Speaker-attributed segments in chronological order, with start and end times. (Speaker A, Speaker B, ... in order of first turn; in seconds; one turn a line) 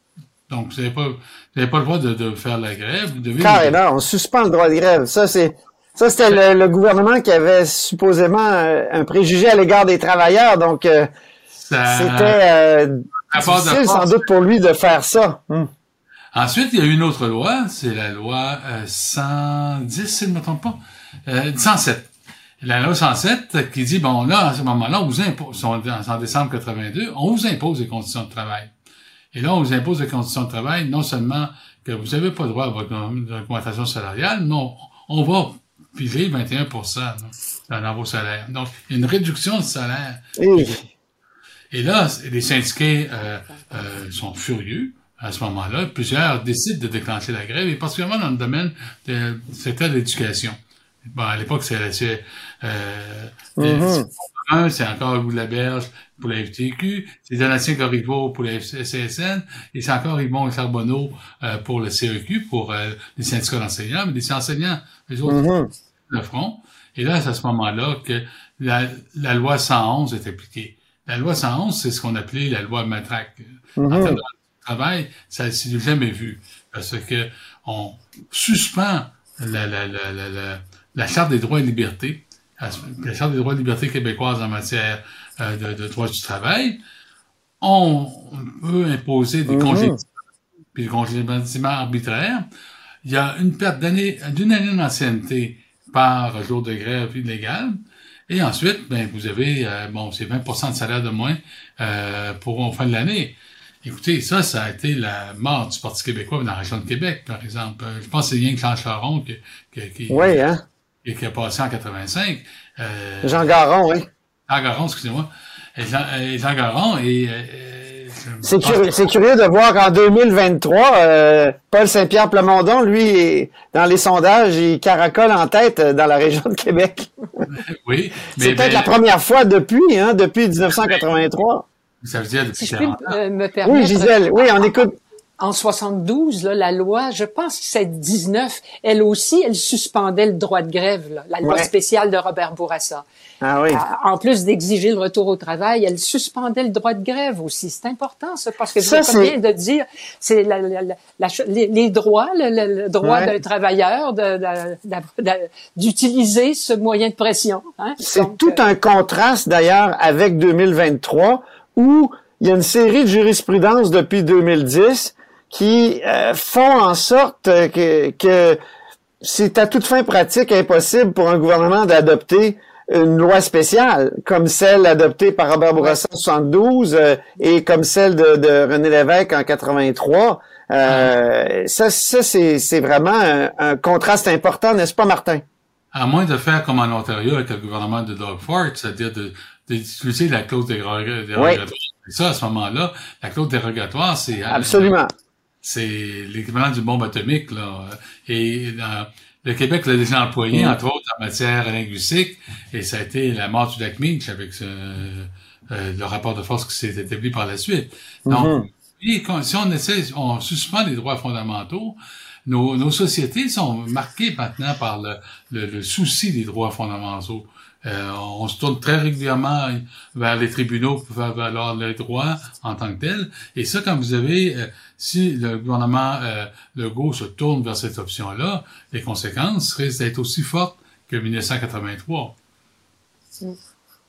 Speaker A: 0.5-3.8
Speaker B: 3.4-11.1
Speaker A: 11.6-12.4
Speaker B: 11.9-15.7
Speaker A: 13.3-14.2
Speaker A: 16.3-22.1
Speaker A: 22.6-28.7
Speaker A: 29.3-40.8
Speaker B: 40.4-40.8
Speaker A: 41.7-65.5
Speaker B: 53.6-54.1
Speaker B: 65.3-65.7
Speaker A: 66.1-86.8
Speaker B: 73.8-74.2
Speaker A: 87.6-90.1
Speaker B: 89.5-90.0
Speaker A: 90.7-92.5
Speaker A: 93.0-97.8
Speaker A: 98.3-110.4
Speaker B: 110.1-110.6
Speaker A: 111.0-113.6
Speaker B: 113.2-114.1
Speaker A: 114.5-119.0
Speaker B: 118.4-127.1
Speaker A: 127.5-128.9
Speaker B: 128.4-131.7
Speaker A: 132.0-133.2
Speaker C: 132.6-134.8
Speaker B: 133.7-135.0
Speaker C: 135.4-143.1
Speaker B: 141.4-141.7
Speaker B: 143.4-143.8
Speaker C: 143.7-158.6
Speaker B: 148.8-149.3
Speaker B: 153.0-153.3
Speaker B: 158.0-168.6
Speaker B: 169.2-185.4
Speaker A: 180.9-181.1
Speaker A: 185.9-194.9
Speaker B: 191.4-191.6
Speaker B: 194.5-195.1
Speaker A: 195.6-232.3
Speaker B: 200.5-200.8
Speaker B: 208.3-208.7